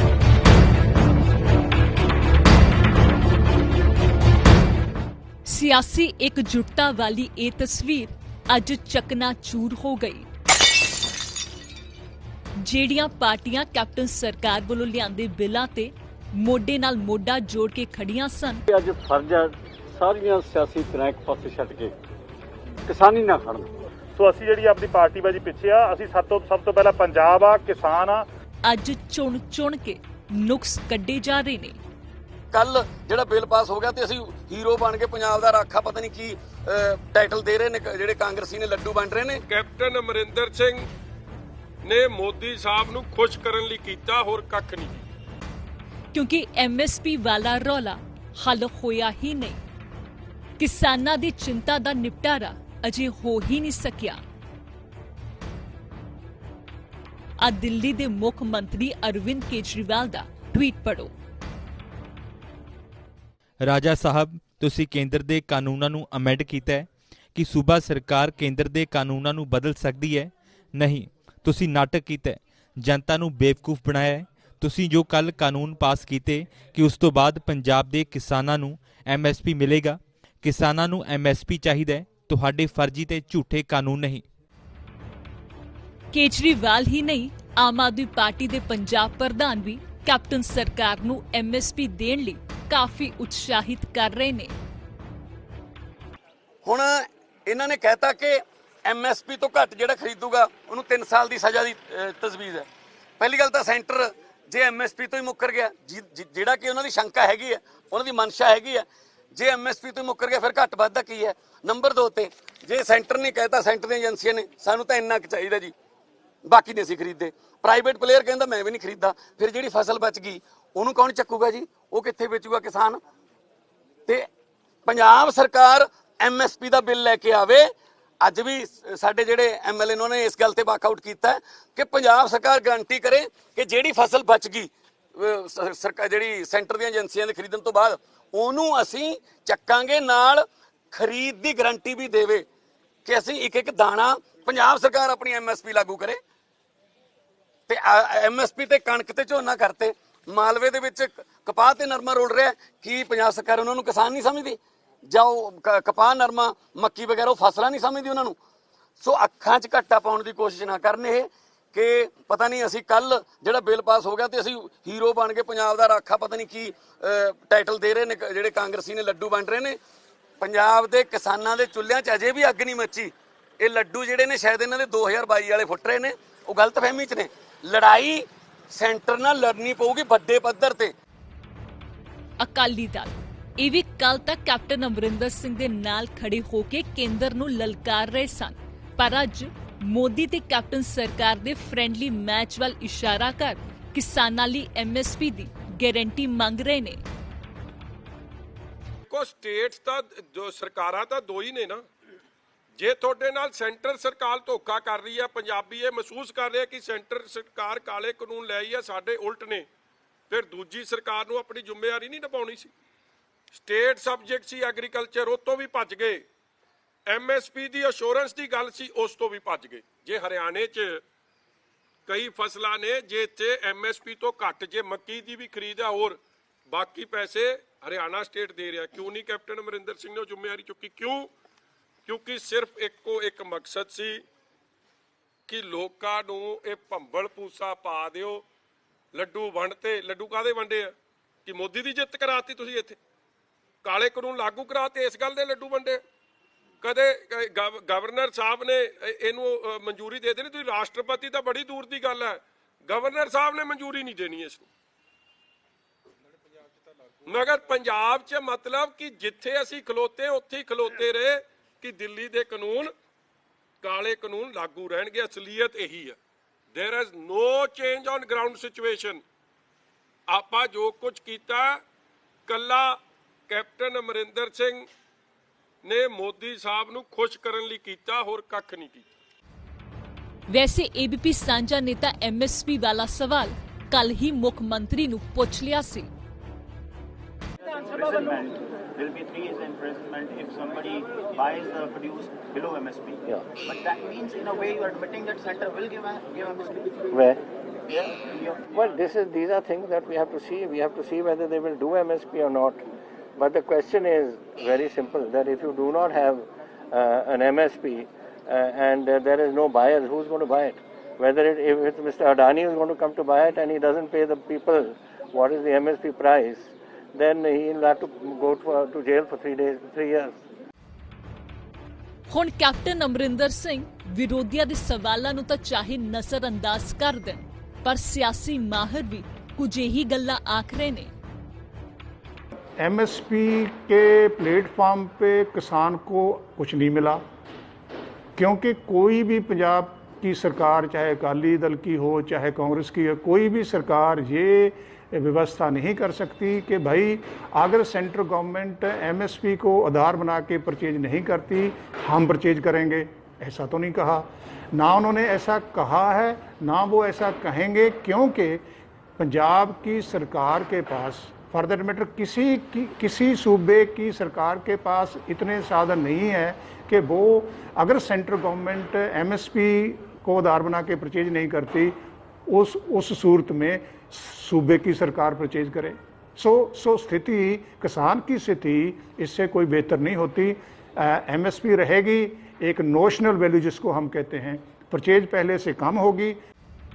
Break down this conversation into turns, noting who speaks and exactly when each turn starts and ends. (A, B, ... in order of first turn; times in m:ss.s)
0:05.4-0:10.2 A
0:12.6-0:18.6 A
0:18.7-0:21.9 B
0:22.9-0:23.7 B
0:24.2-0:28.3 C
0:28.6-0:31.8 A
0:32.5-0:39.4 D
0:39.5-0:40.8 E
0:41.8-0:45.0 E
0:46.1-0:49.6 A
0:50.6-0:54.2 A
0:57.4-1:01.1 A
1:03.6-1:24.2 F
1:26.1-1:34.5 A
1:36.6-1:42.6 D
1:43.2-1:55.7 D
1:56.4-2:03.0 D
2:04.8-2:07.7 D
2:08.2-2:22.4 D
2:23.0-2:26.2 D
2:27.7-2:38.4 D
2:39.0-2:49.8 D
2:50.4-3:00.9 D
3:02.4-3:17.0 A
3:19.1-3:21.8 E
3:22.8-3:29.7 E
3:30.3-3:32.7 E
3:33.5-3:36.2 E
3:37.1-3:41.0 E
3:42.1-3:51.3 E
3:52.0-3:54.2 E
3:55.5-3:58.4 E
3:59.1-4:00.9 E
4:01.4-4:03.0 E
4:03.8-4:06.0 E
4:06.8-4:14.7 E
4:17.2-4:22.9 E
4:23.8-4:26.2 E
4:26.7-4:29.2 E
4:30.3-4:31.8 E
4:32.5-4:33.0 E
4:33.5-4:34.9 E
4:35.8-4:39.1 E
4:40.5-4:46.1 A
4:47.9-4:57.0 G
4:57.1-4:57.4 H
4:58.1-4:58.6 G
4:58.7-5:02.8 H
5:03.4-5:20.4 H
5:22.3-5:31.1 A
5:32.8-5:37.2 I
5:38.4-5:58.6 I
5:59.2-6:11.9 I
6:12.5-6:26.4 I